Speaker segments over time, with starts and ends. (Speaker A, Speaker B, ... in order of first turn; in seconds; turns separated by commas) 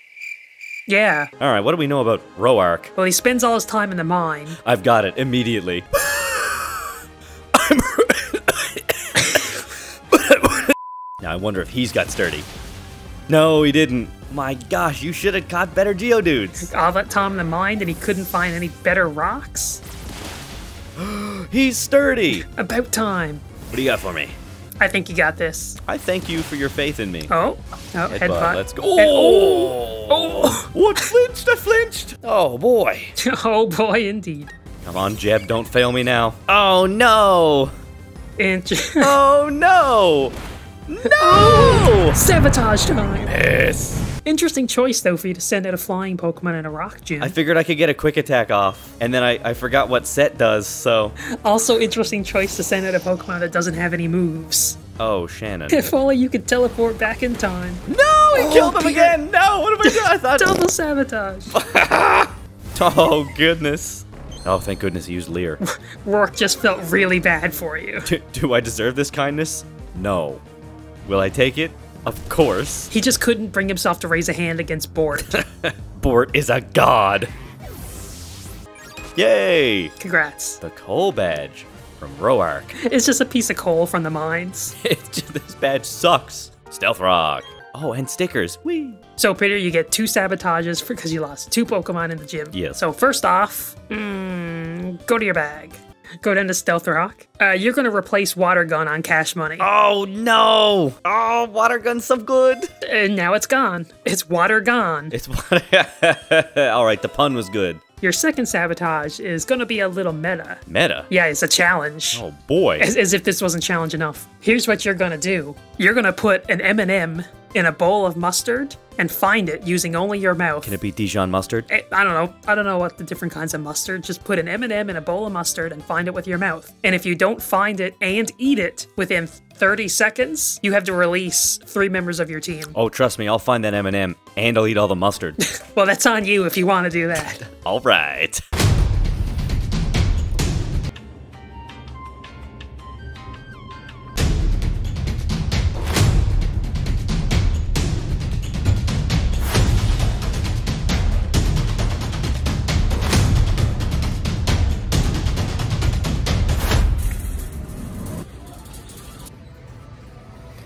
Speaker A: 0.9-1.3, Speaker B: 1.4-2.9, Speaker A: 3.0-4.6, Speaker B: 4.6-6.9, Speaker B: 7.5-12.5, Speaker B: 13.3-16.7, Speaker A: 16.6-19.8, Speaker B: 21.0-22.5, Speaker A: 22.4-23.4, Speaker B: 23.7-24.4, Speaker A: 24.8-25.8, Speaker B: 25.9-27.3, Speaker A: 27.3-31.1, Speaker B: 28.1-33.1, Speaker A: 33.2-34.5, Speaker B: 34.9-37.7, Speaker A: 38.4-39.2, Speaker B: 39.0-40.4, Speaker B: 40.9-42.2, Speaker A: 41.0-43.4, Speaker B: 43.2-44.0, Speaker A: 44.2-47.4, Speaker B: 47.2-51.1, Speaker A: 51.4-54.8, Speaker B: 55.0-55.8, Speaker A: 55.7-59.2, Speaker B: 57.9-60.6, Speaker A: 59.8-61.6, Speaker B: 61.5-65.6, Speaker A: 65.6-68.1, Speaker B: 68.0-70.4, Speaker B: 71.1-72.9, Speaker A: 72.9-75.3, Speaker B: 75.3-77.3, Speaker B: 79.2-79.9, Speaker A: 80.0-80.6, Speaker B: 80.6-82.7, Speaker A: 82.8-84.8, Speaker B: 84.8-89.0, Speaker A: 89.2-99.7, Speaker B: 92.5-92.8, Speaker B: 99.6-102.7, Speaker A: 102.8-105.1, Speaker B: 105.1-107.8, Speaker A: 108.0-112.2, Speaker B: 110.7-111.1, Speaker B: 112.1-112.9, Speaker A: 112.8-120.8, Speaker B: 120.6-121.7, Speaker A: 121.7-132.8, Speaker B: 132.8-135.4, Speaker A: 135.4-137.4, Speaker B: 137.4-138.4